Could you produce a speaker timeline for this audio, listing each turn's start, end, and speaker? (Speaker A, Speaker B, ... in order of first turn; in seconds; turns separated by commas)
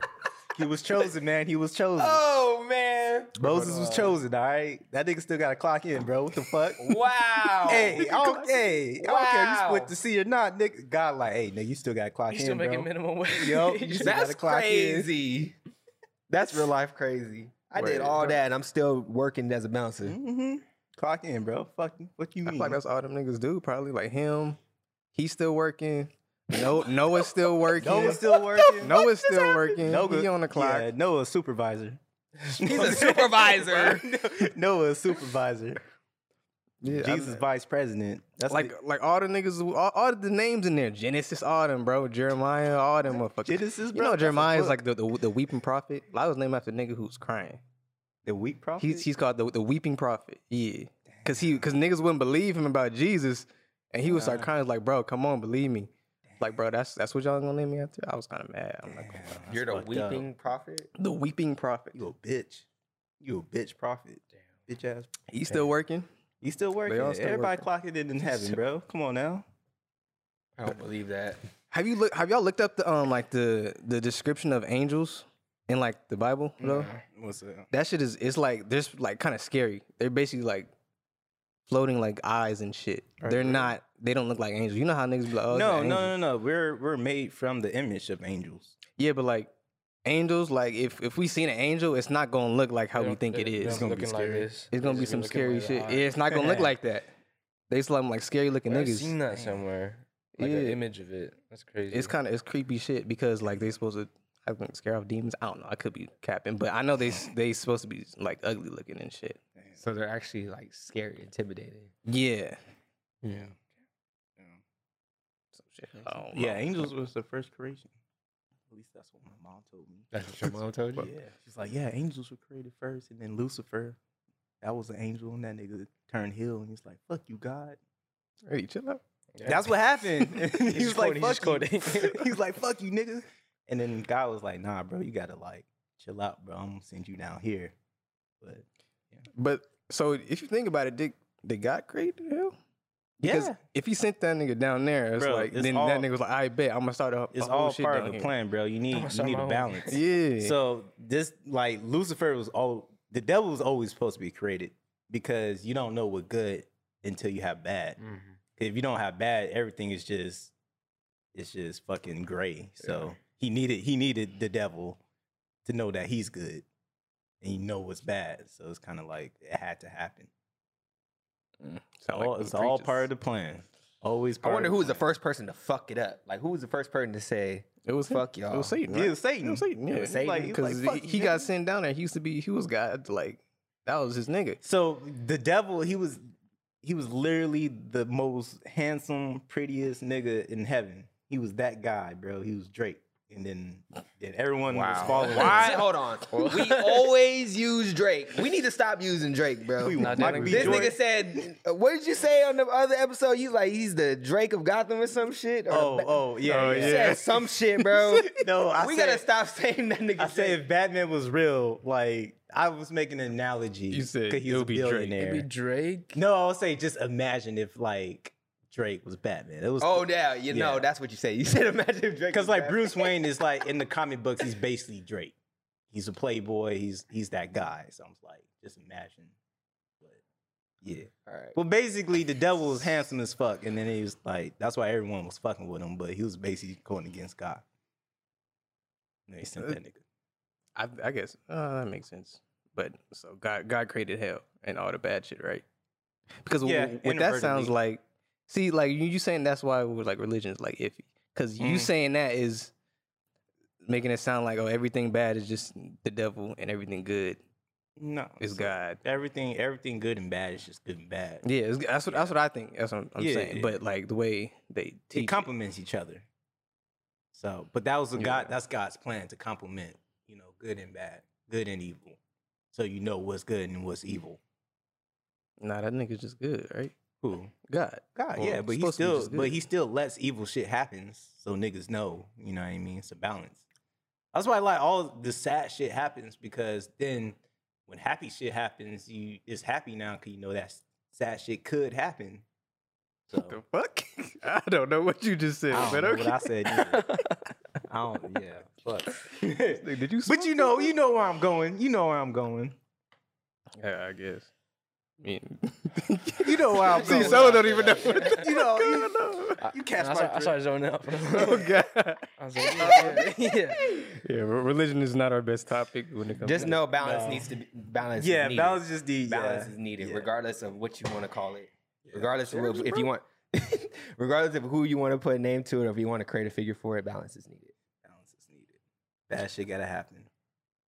Speaker A: 0.5-2.2, Speaker B: 2.0-4.1, Speaker A: 3.4-6.9, Speaker C: 3.6-4.0, Speaker B: 6.8-8.3, Speaker A: 7.6-15.1, Speaker B: 9.0-9.9, Speaker C: 12.3-14.2, Speaker B: 14.0-15.5, Speaker B: 16.3-20.2, Speaker D: 17.8-18.4, Speaker A: 20.0-22.8, Speaker D: 22.4-24.6, Speaker D: 25.1-30.9, Speaker A: 27.8-29.0, Speaker B: 27.9-29.6, Speaker A: 29.7-32.0, Speaker A: 32.5-35.8, Speaker B: 32.6-34.1, Speaker D: 36.8-37.4, Speaker A: 36.9-38.7, Speaker D: 38.5-47.6, Speaker A: 43.4-44.8, Speaker A: 48.2-49.1, Speaker D: 48.8-59.3, Speaker A: 51.2-51.6, Speaker A: 54.1-54.5, Speaker A: 58.9-60.3, Speaker B: 59.5-60.9, Speaker D: 61.0-62.0, Speaker A: 61.9-62.6, Speaker A: 63.2-65.6, Speaker D: 65.3-66.1, Speaker A: 66.4-69.4, Speaker D: 66.8-67.7, Speaker D: 68.2-68.6, Speaker B: 70.6-71.4, Speaker D: 71.7-76.9, Speaker A: 77.0-77.7, Speaker D: 77.7-80.7, Speaker D: 81.7-86.2, Speaker A: 83.2-83.7, Speaker A: 85.5-88.8, Speaker D: 89.0-89.5, Speaker D: 90.0-93.9, Speaker C: 92.9-96.4, Speaker A: 93.6-94.5, Speaker D: 94.7-97.1, Speaker D: 97.7-99.1, Speaker C: 98.7-102.1, Speaker D: 100.4-100.8, Speaker D: 101.9-109.4, Speaker B: 109.8-111.9, Speaker D: 112.0-112.6, Speaker B: 113.2-113.5, Speaker A: 113.3-113.5, Speaker D: 115.5-116.9, Speaker A: 116.0-117.9, Speaker A: 118.7-124.0, Speaker B: 120.1-121.1, Speaker A: 124.6-127.8, Speaker D: 128.4-129.0, Speaker C: 129.4-129.7, Speaker A: 129.4-137.7, Speaker C: 130.3-132.4, Speaker A: 138.4-139.2, Speaker D: 139.3-142.5, Speaker D: 143.2-148.3, Speaker A: 143.2-143.6, Speaker A: 145.2-146.1, Speaker A: 147.3-158.0, Speaker C: 148.9-150.0, Speaker D: 149.9-150.6, Speaker C: 158.0-158.4, Speaker A: 158.6-160.5, Speaker A: 161.3-165.0, Speaker C: 162.8-163.1, Speaker A: 165.7-166.6, Speaker A: 167.4-170.3, Speaker D: 171.7-173.1, Speaker A: 172.1-175.0, Speaker B: 174.4-178.8, Speaker D: 177.8-184.6, Speaker A: 178.9-181.5, Speaker B: 179.9-180.6, Speaker A: 184.6-186.2, Speaker A: 186.8-195.8, Speaker B: 194.7-210.6, Speaker C: 195.0-197.1, Speaker A: 199.8-201.0, Speaker C: 200.0-200.9, Speaker A: 205.7-207.2, Speaker D: 206.4-207.2, Speaker D: 207.8-208.3, Speaker A: 208.2-209.2, Speaker A: 210.2-215.4, Speaker D: 213.9-215.2, Speaker C: 215.2-216.2, Speaker A: 216.1-220.9, Speaker B: 219.8-223.2, Speaker A: 222.3-225.3, Speaker A: 225.9-229.3, Speaker A: 230.8-237.6, Speaker B: 231.2-231.6, Speaker A: 239.3-240.0, Speaker D: 240.8-245.6, Speaker D: 246.4-252.7, Speaker A: 246.6-247.7, Speaker A: 251.6-251.9, Speaker D: 253.8-257.4, Speaker A: 258.0-261.4, Speaker D: 258.4-259.0, Speaker D: 261.4-265.5, Speaker A: 262.1-262.3, Speaker A: 263.2-263.8, Speaker A: 265.1-266.2, Speaker A: 267.3-272.2, Speaker D: 268.1-268.5, Speaker A: 272.7-274.4, Speaker D: 275.6-276.9, Speaker A: 277.2-277.5, Speaker D: 277.6-279.6, Speaker A: 278.1-283.6, Speaker A: 284.3-292.4, Speaker A: 293.3-293.6, Speaker D: 293.4-296.4, Speaker A: 295.7-297.1, Speaker C: 296.9-297.4, Speaker A: 297.9-302.8, Speaker D: 299.6-300.9, Speaker D: 303.8-304.5, Speaker D: 305.2-309.6, Speaker A: 306.4-310.6, Speaker C: 306.9-308.4, Speaker C: 309.6-311.7, Speaker D: 311.3-313.3, Speaker C: 312.4-313.9, Speaker A: 312.8-313.4, Speaker D: 313.8-316.8, Speaker B: 316.4-327.7, Speaker A: 317.0-317.5, Speaker A: 318.2-320.3, Speaker A: 322.0-323.1, Speaker A: 328.0-328.8, Speaker A: 329.3-330.3